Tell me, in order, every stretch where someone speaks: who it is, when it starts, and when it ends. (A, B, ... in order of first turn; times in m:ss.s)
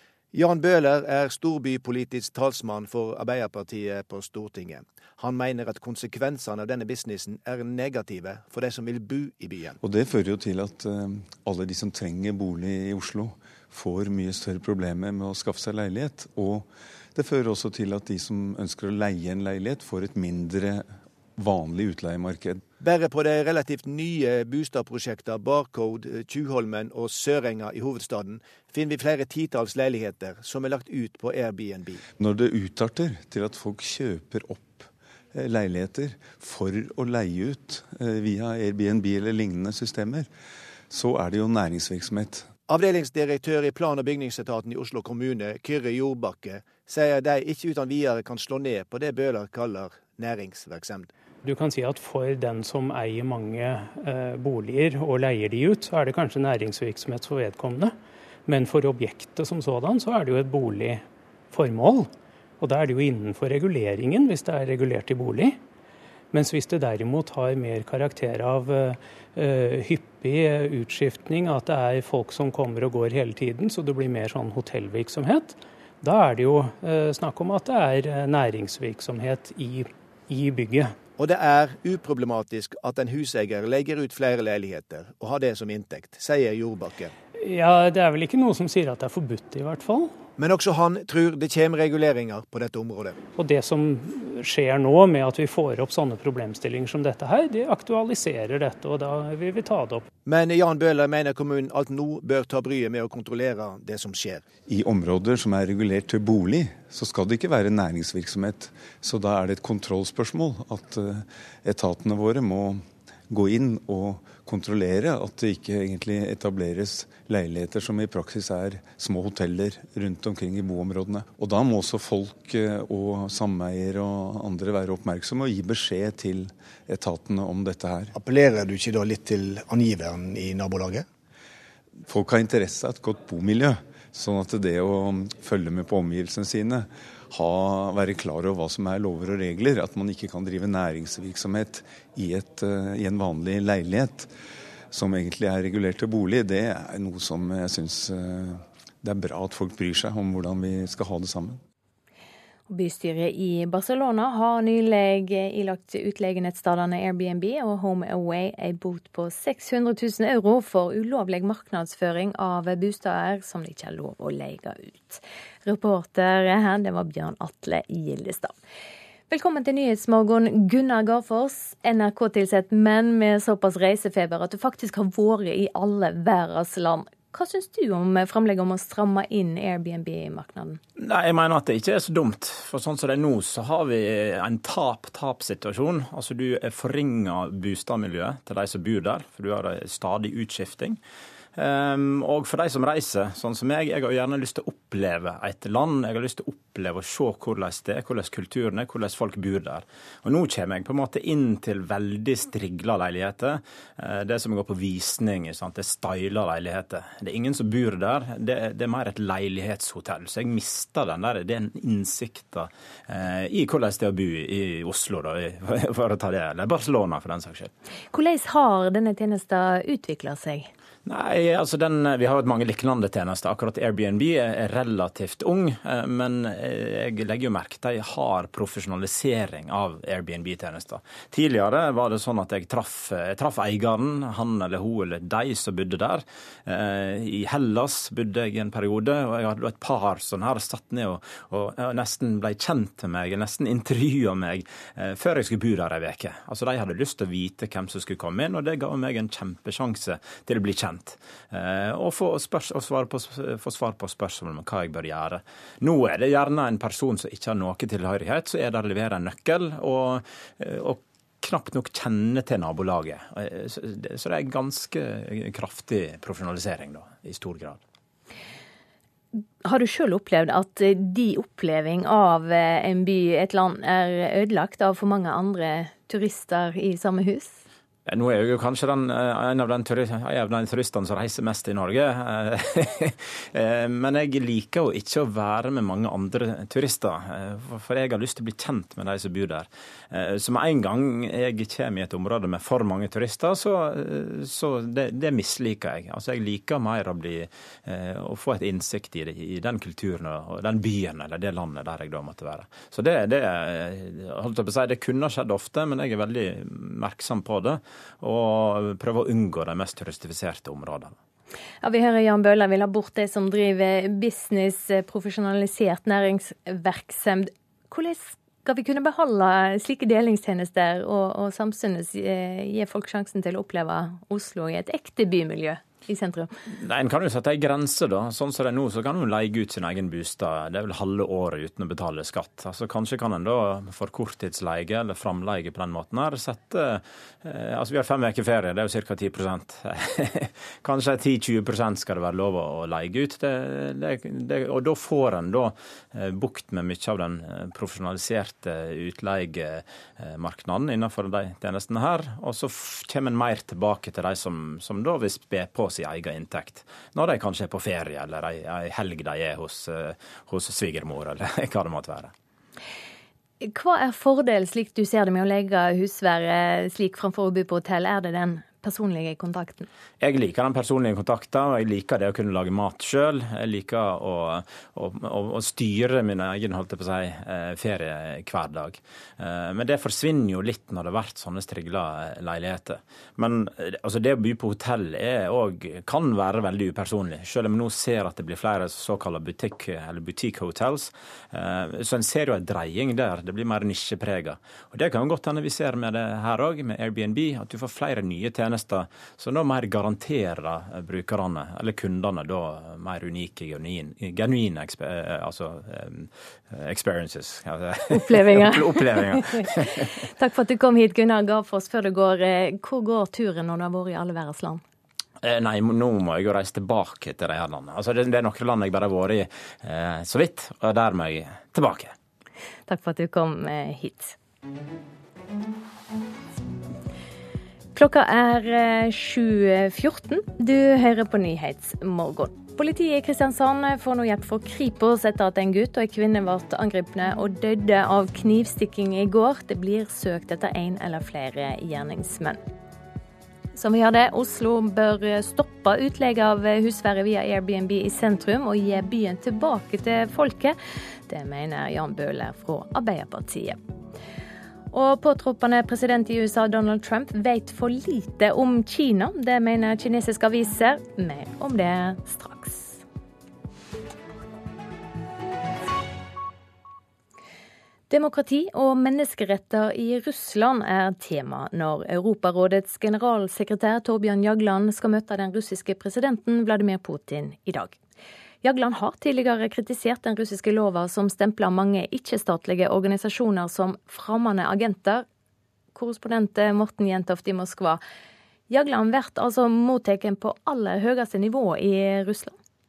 0:00.3-0:09.8 A
0:09.8-0:22.6 B
0:22.8-0:32.0 A
0:32.2-0:40.3 B
0:40.9-0:42.5 B
0:42.7-0:51.1 A
0:51.4-0:57.9 C
0:58.4-1:02.1 C
1:02.6-1:05.6 C
1:06.3-1:20.9 C
1:21.2-1:27.1 A
1:27.4-1:30.2 C
1:30.4-1:33.2 A
1:33.4-1:40.1 C
1:40.2-1:44.4 A
1:44.6-2:08.1 B
2:08.1-2:11.0 A
2:12.1-2:24.3 B
2:24.9-2:31.6 B
2:32.7-2:48.5 D
2:49.3-3:00.8 D
3:01.0-3:11.0 E
3:11.6-3:37.7 E
3:38.1-3:40.7 D
3:41.0-4:27.8 E
4:29.6-4:37.6 D
4:38.1-5:11.2 E
5:11.8-5:26.5 D
5:26.8-6:02.3 E
6:03.6-6:09.9 D
6:10.2-6:50.1 E
6:48.1-6:49.6 D
6:50.4-6:54.8 D
6:55.4-7:02.1 E
7:02.9-7:04.4 D
7:07.9-7:22.6 D
7:23.7-7:30.8 D
7:31.3-7:33.8 D
7:34.9-7:43.0 D
7:48.1-7:58.0 D
7:58.6-8:05.2 D
8:05.9-8:08.0 D
8:08.7-8:12.6 D